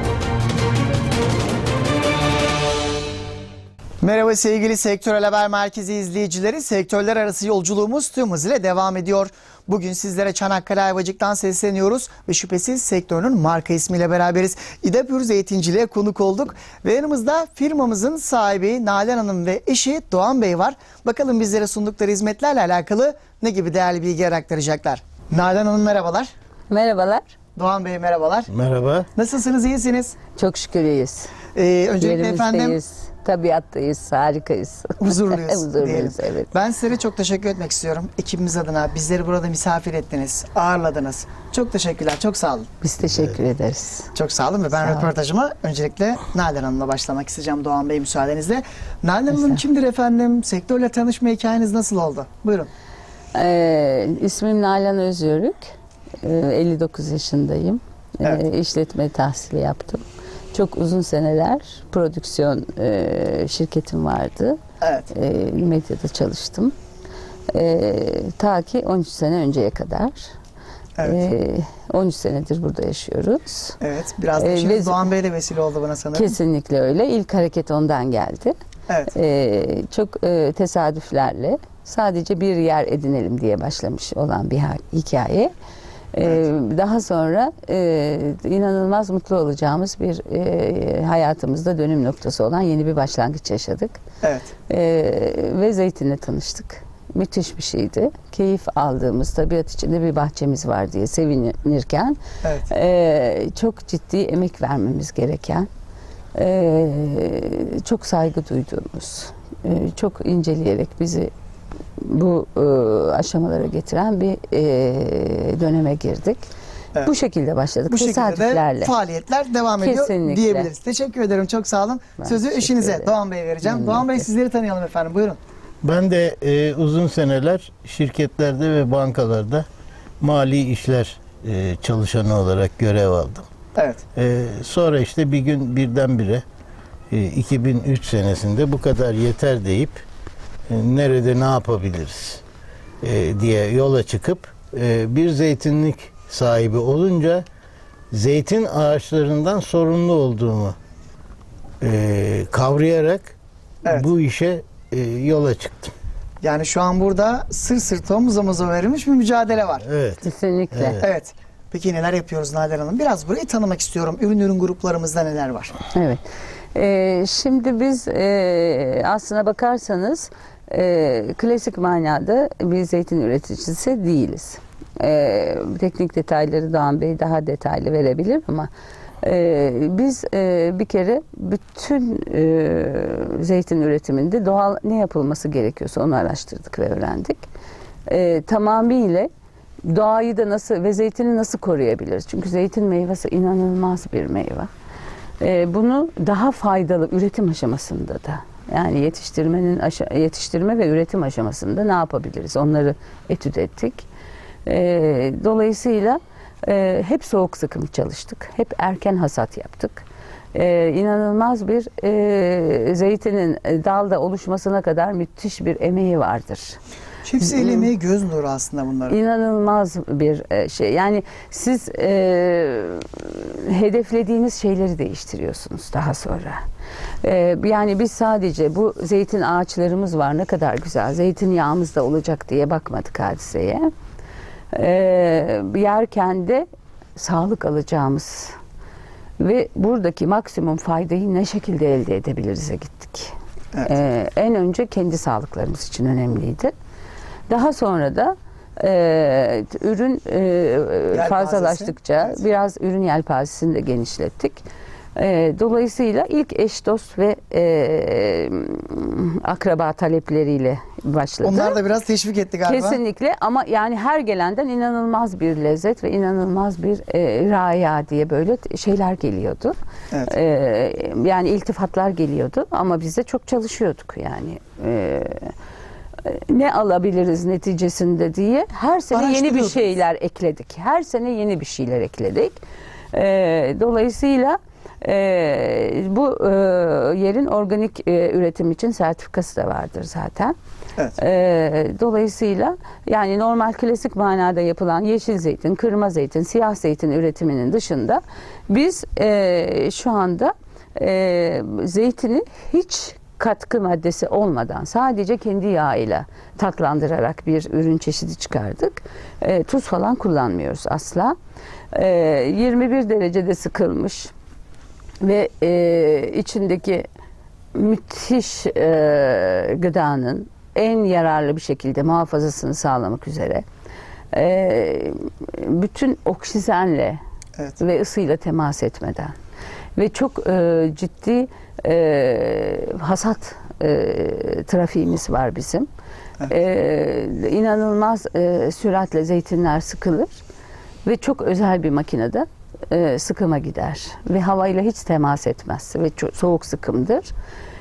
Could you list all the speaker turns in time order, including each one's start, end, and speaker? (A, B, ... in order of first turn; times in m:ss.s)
0:04.0-0:26.3 A
0:26.7-0:27.3 B
0:27.6-0:28.5 A
0:28.5-0:29.1 C
0:29.2-0:30.2 A
0:30.4-0:31.3 B
0:31.5-0:32.8 A
0:32.0-0:36.5 B
0:35.0-0:42.7 A
0:42.8-0:44.1 B
0:44.2-0:52.7 A
0:44.8-0:45.1 B
0:53.4-0:55.7 B
0:56.2-1:04.6 B
1:04.8-1:05.1 A
1:05.1-1:06.7 B
1:07.5-1:10.4 B
1:11.0-1:11.2 A
1:11.0-1:13.8 B
1:13.8-1:16.4 A
1:14.4-1:15.1 B
1:16.1-1:18.6 B
1:18.9-1:19.1 A
1:19.1-1:25.5 B
1:26.1-1:34.0 B
1:34.2-1:34.5 A
1:34.7-1:45.7 B
1:42.4-1:42.7 A
1:46.4-1:51.3 B
1:52.0-1:56.5 B
1:57.0-1:58.9 B
1:57.9-2:05.4 A
1:59.8-2:00.7 B
2:02.2-2:03.1 B
2:03.6-2:04.2 B
2:05.8-2:09.7 C
2:10.2-2:13.4 C
2:13.8-2:14.0 A
2:14.2-2:16.4 C
2:17.1-2:20.0 C
2:20.7-2:22.4 C
2:23.0-2:27.4 C
2:28.1-2:30.8 C
2:31.8-2:33.4 C
2:33.9-2:35.9 C
2:36.4-2:39.8 A
2:39.8-2:41.0 C
2:40.2-2:41.0 B
2:41.0-2:45.8 A
2:45.9-2:58.7 B
2:59.2-3:07.4 B
3:08.1-3:09.3 B
3:09.8-3:14.7 B
3:15.4-3:24.1 B
3:24.7-3:36.8 B
3:37.2-3:39.2 A
3:37.4-3:37.9 B
3:39.1-3:46.6 B
3:47.2-3:53.9 B
3:54.7-3:58.6 B
3:59.4-4:06.7 B
4:07.5-4:14.6 B
4:11.1-4:12.4 A
4:15.2-4:21.8 B
4:21.4-4:23.0 A
4:22.6-4:35.5 B
4:36.2-4:42.6 B
4:39.1-4:39.9 A
4:43.1-4:50.6 B
4:51.2-5:11.4 B
5:11.9-5:14.3 B
5:15.2-5:17.1 B
5:17.7-5:23.6 B
5:24.3-5:27.2 B
5:27.8-5:29.4 B
5:30.0-5:35.9 B
5:36.4-5:40.4 B
5:41.0-5:47.3 B